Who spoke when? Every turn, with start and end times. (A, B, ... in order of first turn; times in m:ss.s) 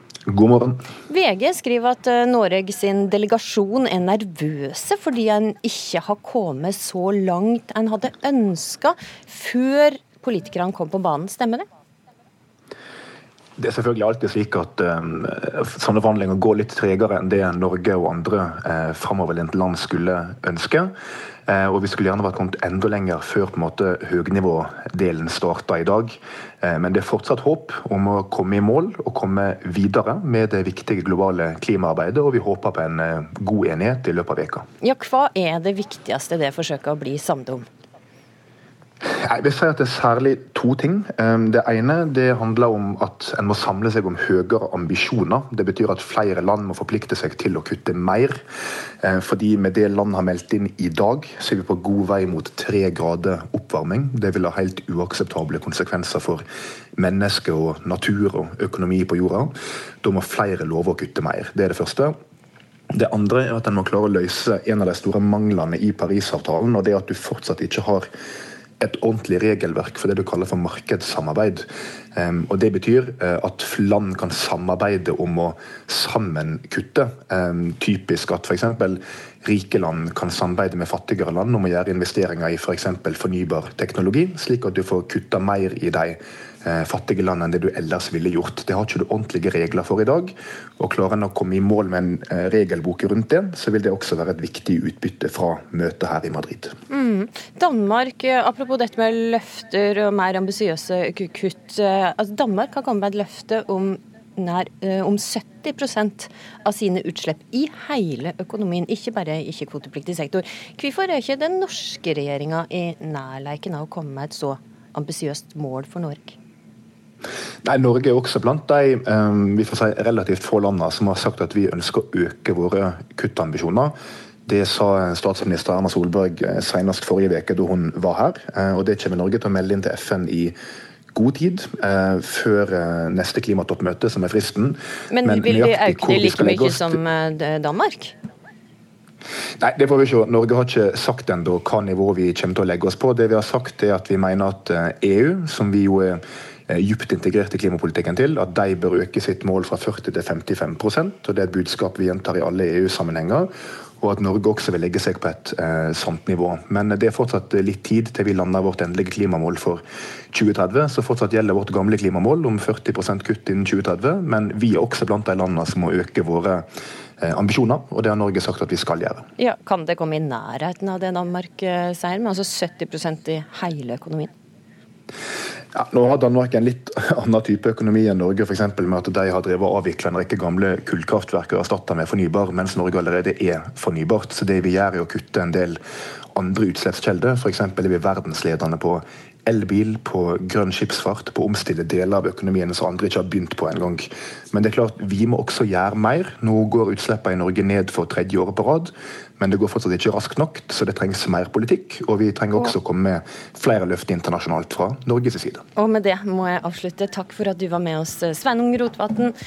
0:00.3-0:00.8 A
0:01.1-0:11.6 B
0:13.6-0:20.9 A
0:21.5-0:34.6 A
0:34.8-0:37.6 B
0:39.0-0:48.4 A
0:49.0-0:56.4 A
0:57.0-1:02.1 A
1:02.9-1:08.1 A
1:08.8-1:36.7 A
1:36.9-1:56.4 B
1:57.6-2:03.9 A
2:04.4-2:10.6 A
2:11.1-2:17.0 A
2:15.1-2:18.1 B
2:19.6-2:46.6 A
2:47.2-2:49.3 A
2:49.4-2:54.3 B
2:55.7-3:05.8 A
3:06.3-3:25.6 A
3:25.8-3:29.3 B